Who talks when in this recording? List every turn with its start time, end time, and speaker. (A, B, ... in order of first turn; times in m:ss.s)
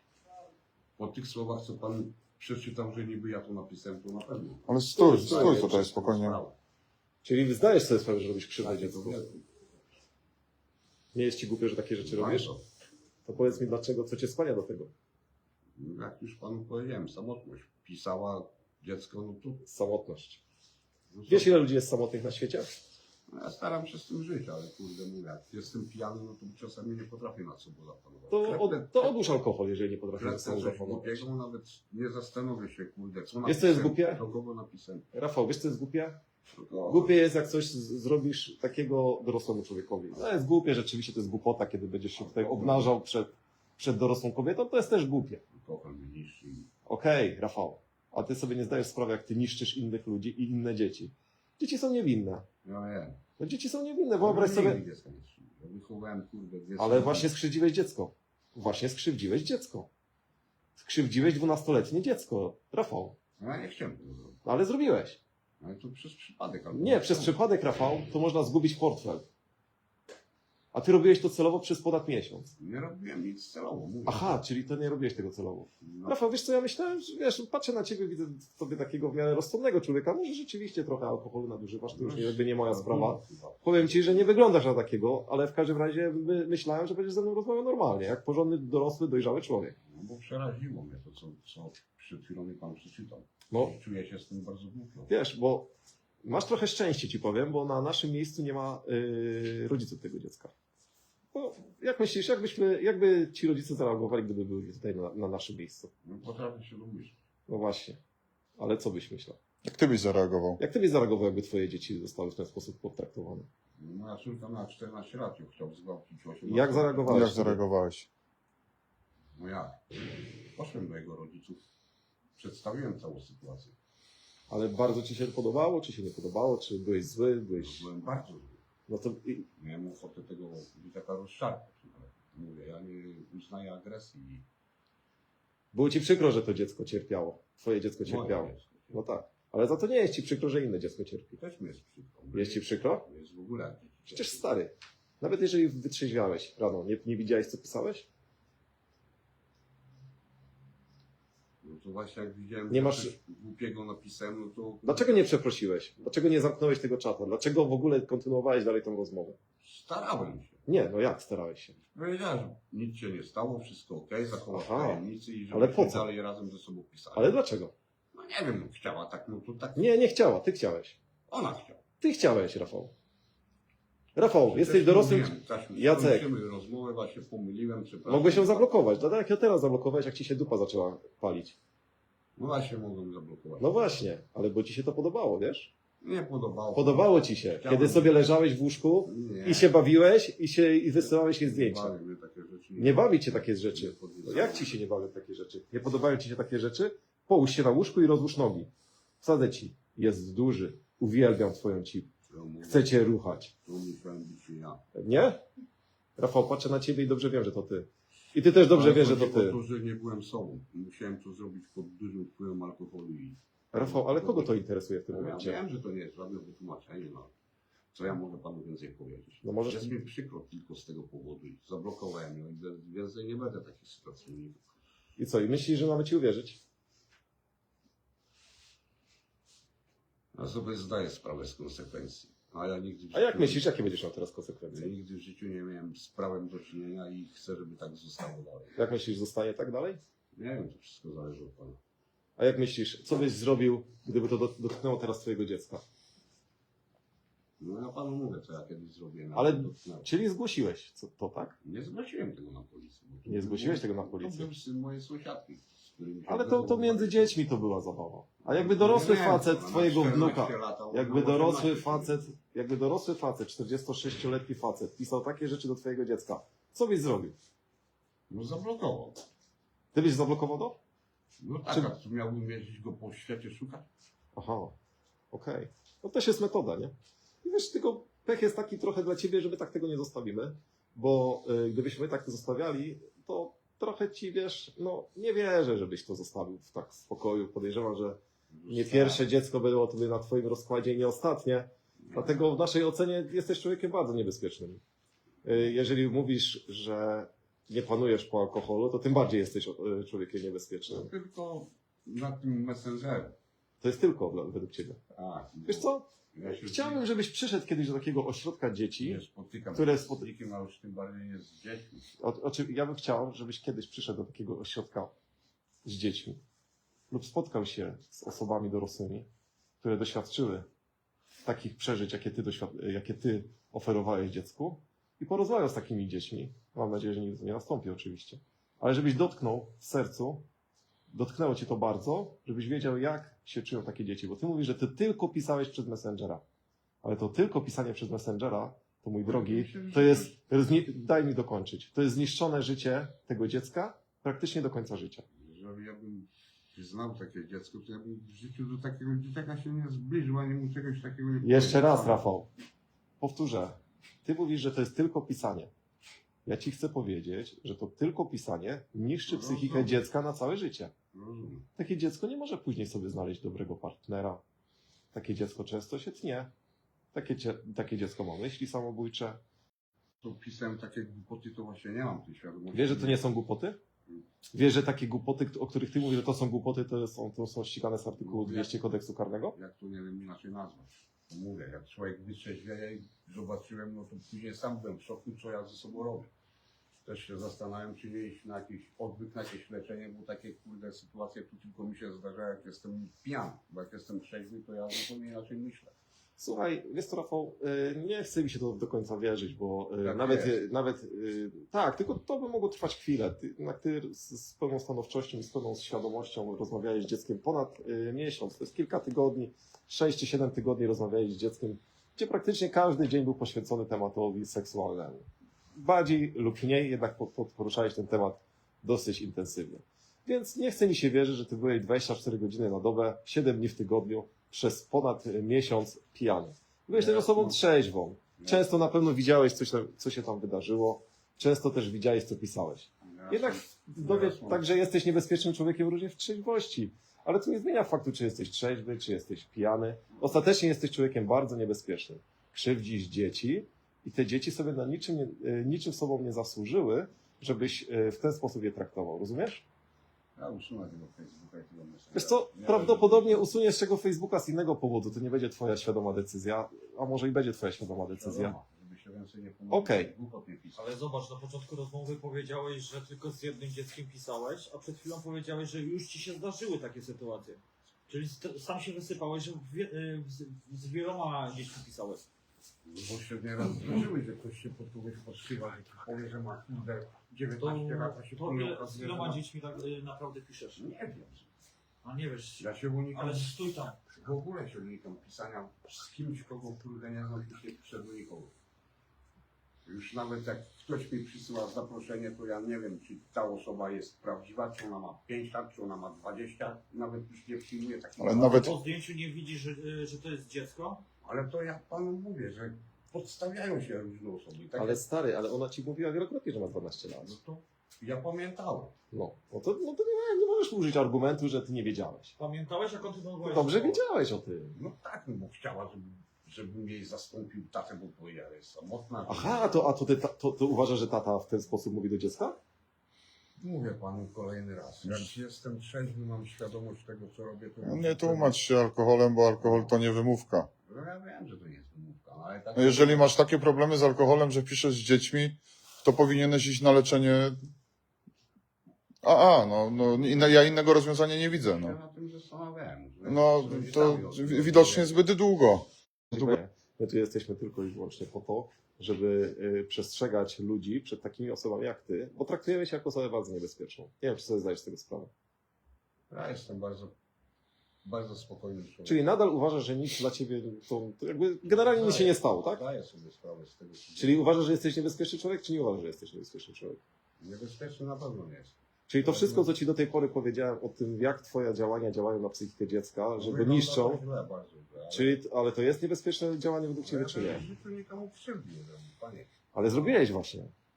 0:01.0-0:06.6 A
0:04.7-0:06.4 B
0:04.9-0:05.8 C
0:07.2-0:09.2 C
0:08.6-0:09.4 A
0:11.1-0:12.5 C
0:12.0-0:12.6 A
0:13.2-0:14.9 C
0:15.8-0:19.6 A
0:19.6-0:20.4 C
0:21.1-0:21.5 A
0:21.3-0:22.7 C
0:23.3-0:29.1 A
0:28.3-0:31.2 C
0:30.1-0:35.1 A
0:33.4-0:34.2 C
0:35.1-0:36.2 C
0:36.5-0:37.2 A
0:36.9-0:45.4 C
0:42.2-0:42.9 A
0:45.5-0:46.7 A
0:46.8-0:52.5 C
0:52.6-0:53.2 A
0:53.4-0:54.8 C
0:54.2-0:57.3 A
0:56.8-0:59.9 C
1:00.8-1:03.2 C
1:03.4-1:04.4 A
1:04.4-1:05.2 C
1:05.6-1:07.4 A
1:06.7-1:09.2 C
1:10.7-1:12.5 C
1:12.6-1:14.4 A
1:14.0-1:29.8 C
1:15.8-1:16.2 A
1:21.9-1:24.4 A
1:29.8-1:35.1 A
1:35.1-1:35.7 C
1:36.2-1:40.5 C
1:41.3-1:45.9 C
1:46.0-1:47.2 A
1:47.5-1:48.0 C
1:48.6-1:49.4 C
1:49.6-1:50.6 B
1:50.6-1:53.5 C
1:53.8-1:57.2 A
1:56.4-1:57.6 C
1:57.1-1:58.1 B
1:59.4-2:01.6 A
2:02.4-2:03.8 A
2:04.5-2:07.9 C
2:07.6-2:08.6 A
2:08.9-2:09.5 C
2:09.6-2:14.4 A
2:15.7-2:21.4 C
2:18.0-2:19.0 A
2:21.4-2:24.5 A
2:22.3-2:23.0 C
2:24.1-2:28.1 C
2:31.6-2:35.1 A
2:32.7-2:33.1 C
2:34.8-2:39.4 C
2:39.6-2:40.6 A
2:40.6-2:41.8 C
2:41.9-2:47.4 A
2:44.5-2:46.1 C
2:47.1-2:47.7 C
2:48.1-2:49.9 A
2:49.8-2:51.0 C
2:51.3-2:51.8 A
2:52.0-2:52.9 C
2:54.1-2:56.3 C
2:54.5-2:58.7 A
2:58.0-3:01.6 C
3:02.4-3:03.9 A
3:03.6-3:05.7 C
3:06.0-3:08.2 A
3:06.7-3:11.9 C
3:09.0-3:09.7 A
3:11.4-3:14.8 A
3:12.8-3:18.7 C
3:19.2-3:22.1 C
3:22.3-3:22.9 A
3:22.7-3:23.5 C
3:23.6-3:24.8 A
3:24.9-3:25.4 C
3:26.2-3:29.6 C
3:28.7-3:34.6 A
3:33.7-3:35.6 C
3:35.1-3:37.3 A
3:37.9-3:44.6 A
3:39.4-3:39.9 C
3:45.2-3:46.6 C
3:50.3-3:53.7 A
3:53.1-3:54.9 C
3:54.7-3:58.8 A
3:58.8-4:00.0 C
4:00.3-4:01.8 A
4:02.4-4:05.8 C
4:07.6-4:10.1 A
4:09.3-4:11.6 C
4:11.6-4:17.4 A
4:13.3-4:14.5 C
4:16.3-4:27.4 C
4:18.4-4:22.2 A
4:28.3-4:29.2 A
4:29.9-4:30.8 C
4:31.4-4:33.9 A
4:34.3-4:34.8 C
4:35.3-4:54.8 C
4:48.5-4:49.2 A
4:52.0-4:52.4 A
4:55.4-5:01.1 C
5:00.9-5:03.4 A
5:03.8-5:05.0 C
5:05.2-5:07.0 A
5:05.6-5:09.2 C
5:09.0-5:12.1 A
5:09.7-5:10.3 C
5:12.2-5:15.1 C
5:15.8-5:16.4 C
5:17.1-5:19.3 C
5:19.8-5:20.7 C
5:21.4-5:30.5 C
5:31.1-5:36.4 C
5:37.0-5:45.2 C
5:39.2-5:40.4 A
5:45.3-5:52.2 A
5:51.4-5:52.5 C
5:53.2-5:55.7 C
5:56.4-6:00.9 C
5:59.3-6:00.0 A
6:01.1-6:01.7 A
6:01.8-6:04.4 C
6:05.1-6:06.5 C
6:07.1-6:09.4 C
6:10.2-6:13.3 A
6:12.7-6:13.8 C
6:14.5-6:19.6 C
6:18.2-6:18.8 A
6:19.5-6:26.3 A
6:27.0-6:35.9 A
6:36.4-7:29.6 C
6:40.0-6:40.6 A
7:06.9-7:07.6 A
7:08.4-7:08.7 A
7:13.0-7:14.6 A
7:30.4-7:33.4 A
7:32.1-7:38.5 C
7:38.1-7:40.8 A
7:39.7-7:40.1 C
7:40.8-7:52.2 D
7:52.8-7:59.4 A
7:57.6-8:00.8 D
8:00.8-8:01.5 A
8:02.0-8:04.0 D
8:02.6-8:08.5 A
8:09.8-8:18.8 A
8:18.2-8:18.7 B
8:18.3-8:21.0 D
8:21.2-8:25.0 A
8:24.8-8:27.4 C
8:27.2-8:29.0 A
8:29.1-8:32.3 C
8:32.4-8:34.0 D
8:33.4-8:34.8 C
8:34.7-8:39.8 A
8:39.3-8:42.6 C
8:43.6-8:48.6 A
8:47.8-8:50.7 B
8:49.6-8:49.9 A
8:50.8-8:53.4 A
8:52.8-8:57.6 B
8:59.2-9:02.0 B
9:01.7-9:05.2 A
9:03.2-9:06.6 B
9:06.3-9:15.3 C
9:16.3-9:17.1 A
9:18.0-9:19.2 A
9:19.0-9:22.8 C
9:21.6-9:24.4 A
9:24.2-9:27.0 C
9:27.4-9:29.7 A
9:29.1-9:34.2 C
9:33.4-9:35.4 A
9:35.1-9:37.6 C
9:37.0-9:40.2 A
9:39.7-9:40.7 C